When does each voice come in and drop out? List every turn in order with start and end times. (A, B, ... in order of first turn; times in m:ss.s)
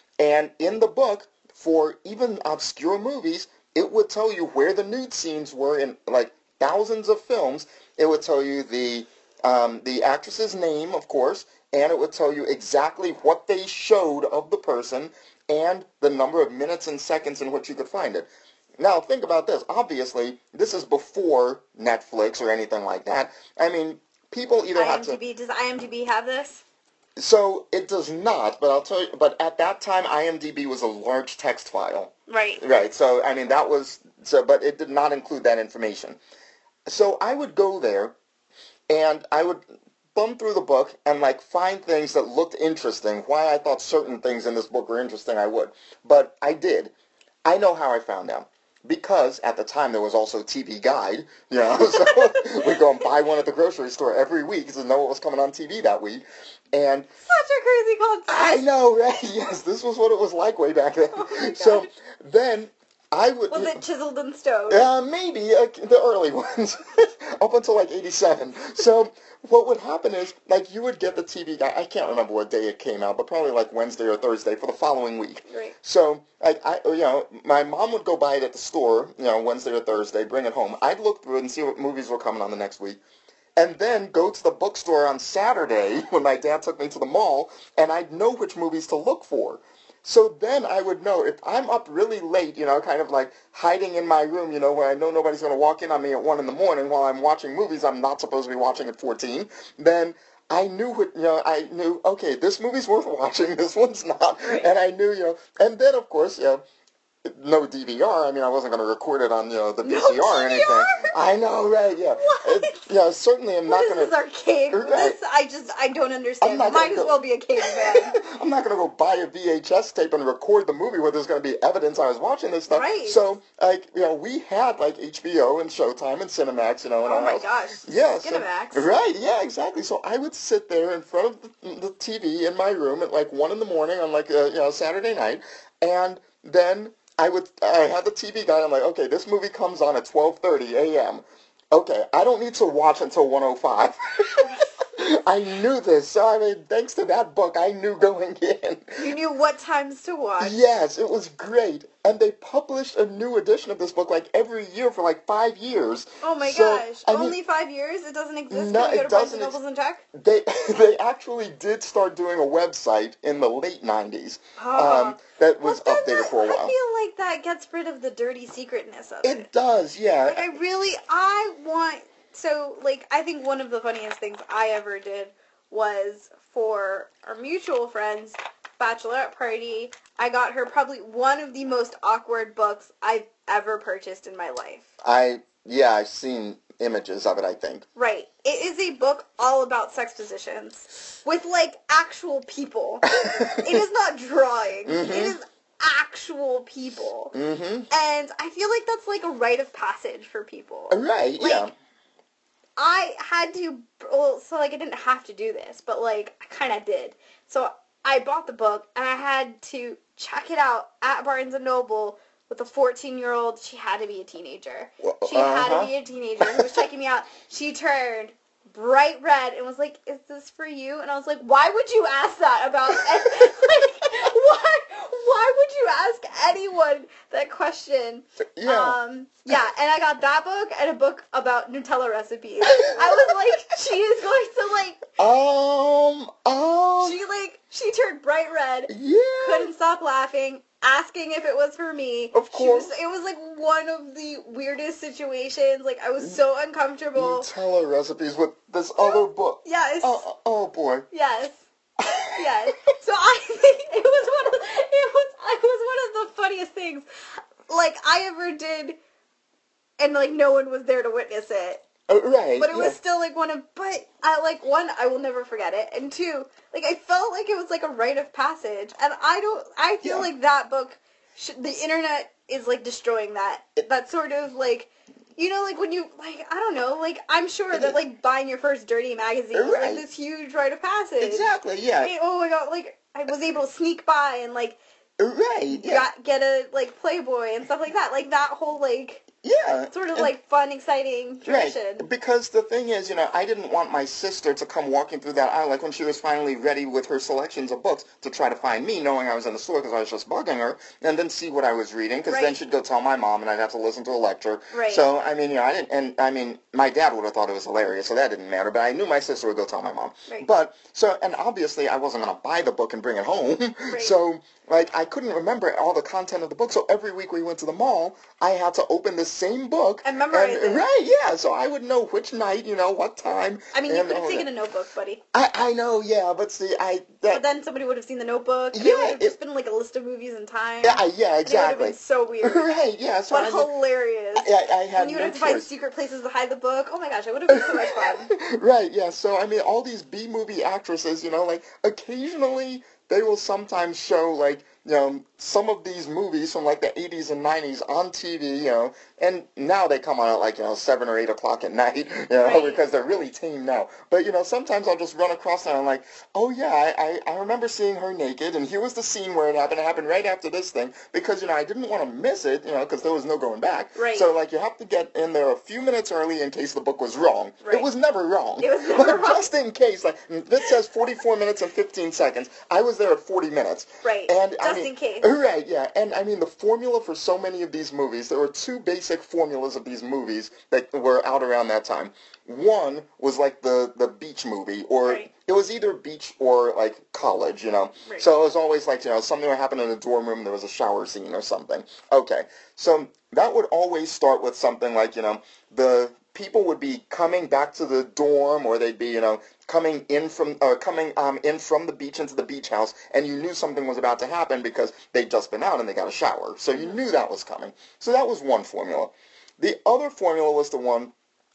0:00.2-0:18.3 A
0:18.8-0:25.2 A
0:24.8-0:26.6 B
0:27.2-0:36.2 A
0:32.3-0:32.6 B
0:36.9-0:38.2 A
0:38.9-0:39.6 A
0:40.2-0:46.9 A
0:47.4-0:57.1 A
0:51.9-0:52.8 B
0:57.3-0:58.6 B
0:58.3-1:03.8 A
1:01.1-1:01.9 B
1:03.5-1:04.9 B
1:04.7-1:23.0 A
1:15.5-1:15.8 B
1:23.6-1:46.6 A
1:44.4-1:44.7 B
1:47.2-1:54.1 A
1:49.8-1:51.1 B
1:52.2-1:52.9 B
1:53.7-1:58.2 B
1:54.7-1:55.2 A
1:56.4-2:29.1 A
2:02.7-2:03.2 B
2:07.1-2:08.9 B
2:29.0-2:30.6 B
2:30.4-2:37.4 A
2:36.2-2:40.0 B
2:38.5-2:39.6 A
2:40.1-2:46.7 A
2:44.6-2:49.5 B
2:49.2-2:50.5 A
2:50.3-3:04.9 B
3:05.0-3:07.9 A
3:08.0-3:17.3 B
3:13.1-3:13.8 A
3:14.9-3:15.4 A
3:17.3-3:17.9 A
3:17.9-3:21.7 B
3:20.9-3:21.7 A
3:22.8-3:55.0 B
3:35.0-3:36.6 A
3:48.6-3:49.0 A
3:52.6-3:53.3 A
3:55.2-3:57.2 A
3:57.0-3:58.9 B
3:58.9-3:59.7 A
3:59.4-4:07.5 B
4:02.3-4:02.9 A
4:07.2-4:11.1 A
4:09.0-4:10.2 B
4:11.1-4:11.6 B
4:12.0-4:12.8 A
4:12.3-4:17.0 B
4:17.7-4:19.0 B
4:20.0-4:21.8 B
4:22.1-4:23.0 A
4:22.6-4:41.5 B
4:30.0-4:30.3 A
4:39.5-4:40.0 A
4:41.2-4:42.1 A
4:42.0-4:44.8 B
4:45.2-4:46.1 A
4:45.7-4:49.2 B
4:49.4-4:50.3 A
4:49.9-4:52.1 B
4:51.4-5:24.5 A
5:02.3-5:02.6 B
5:04.7-5:05.1 B
5:20.0-5:20.9 B
5:23.7-5:25.2 B
5:25.3-5:27.4 A
5:27.3-5:32.7 B
5:28.7-5:29.4 A
5:30.8-5:33.7 A
5:33.3-5:38.3 B
5:34.4-5:35.7 A
5:37.5-6:51.1 A
5:52.4-5:52.9 B
6:04.0-6:04.3 B
6:07.6-6:07.9 B
6:08.6-6:09.5 B
6:14.0-6:15.3 B